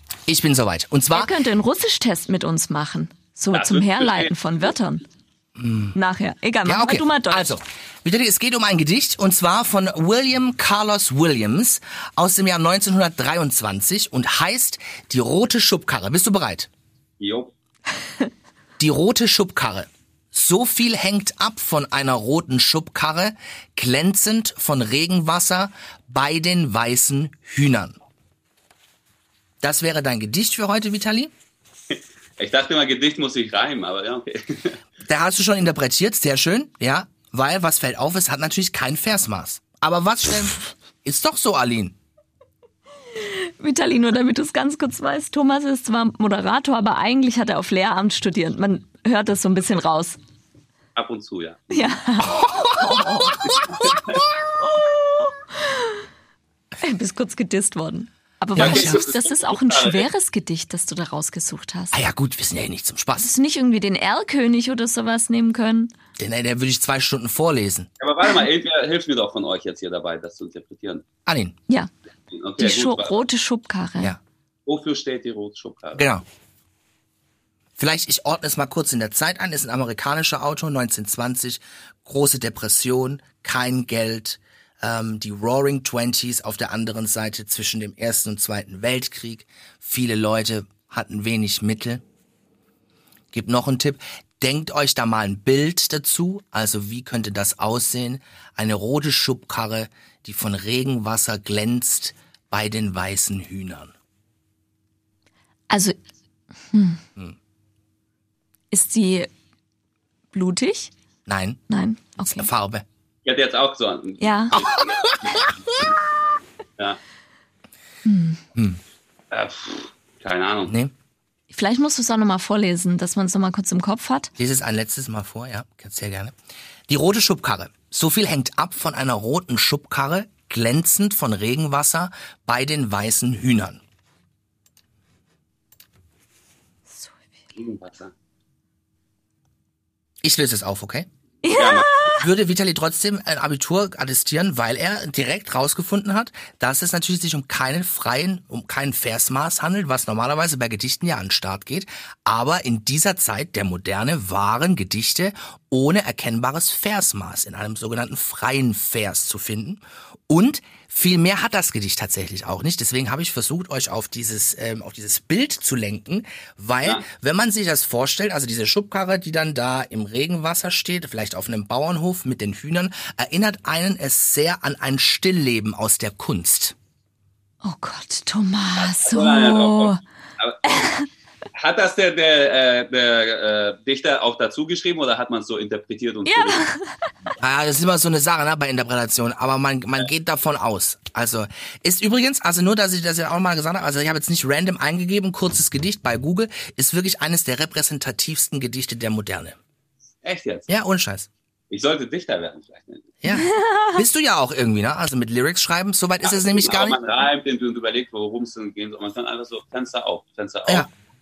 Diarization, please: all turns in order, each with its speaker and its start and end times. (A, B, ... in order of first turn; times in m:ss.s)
0:00.3-0:01.3 A
0:01.1-0:05.0 B
0:03.5-0:04.3 C
0:05.6-0:06.0 A
0:05.9-0:07.5 B
0:06.6-0:16.7 A
0:17.2-0:17.5 C
0:18.8-0:28.0 A
0:29.6-0:31.3 A
0:31.9-0:34.8 C
0:35.1-0:41.9 A
0:43.2-0:50.2 B
0:51.0-0:52.0 C
0:51.7-0:53.4 B
0:52.2-0:53.9 A
0:53.5-0:54.2 C
0:54.6-0:56.0 B
0:56.8-1:02.0 B
0:58.6-0:59.0 A
0:58.6-1:00.1 C
1:01.9-1:03.3 A
1:03.2-1:05.9 B
1:06.2-1:07.9 A
1:08.0-1:11.0 C
1:11.2-1:11.6 A
1:12.3-1:13.2 C
1:12.6-1:14.1 B
1:14.6-1:16.1 C
1:16.0-1:16.2 A
1:17.8-1:32.0 A
1:33.3-1:43.9 A
1:45.7-1:46.0 B
1:46.7-1:47.0 B
1:48.7-1:49.3 B
1:50.3-1:50.9 B
1:51.3-1:51.6 A
1:51.7-1:52.5 B
1:52.2-1:52.8 A
1:53.2-1:55.9 C
1:54.2-1:54.6 B
1:54.5-1:55.5 A
1:58.0-1:58.4 B
1:58.5-1:58.8 A
1:59.3-2:00.7 C
2:00.7-2:00.9 A
2:01.5-2:04.3 B
2:04.4-2:06.4 A
2:06.9-2:13.8 A
2:17.5-2:18.1 C
2:20.2-2:21.1 A
2:21.4-2:22.2 B
2:21.5-2:21.9 C
2:22.1-2:56.7 A
2:57.6-3:00.0 B
2:58.8-3:00.9 C
3:00.7-3:01.0 B
3:01.5-3:06.6 C
3:06.2-3:06.9 B
3:07.4-3:19.6 A
3:20.2-3:20.7 C
3:20.7-3:21.3 A
3:21.7-3:23.1 C
3:23.2-3:27.0 A
3:23.3-3:24.0 B
3:26.2-3:30.9 C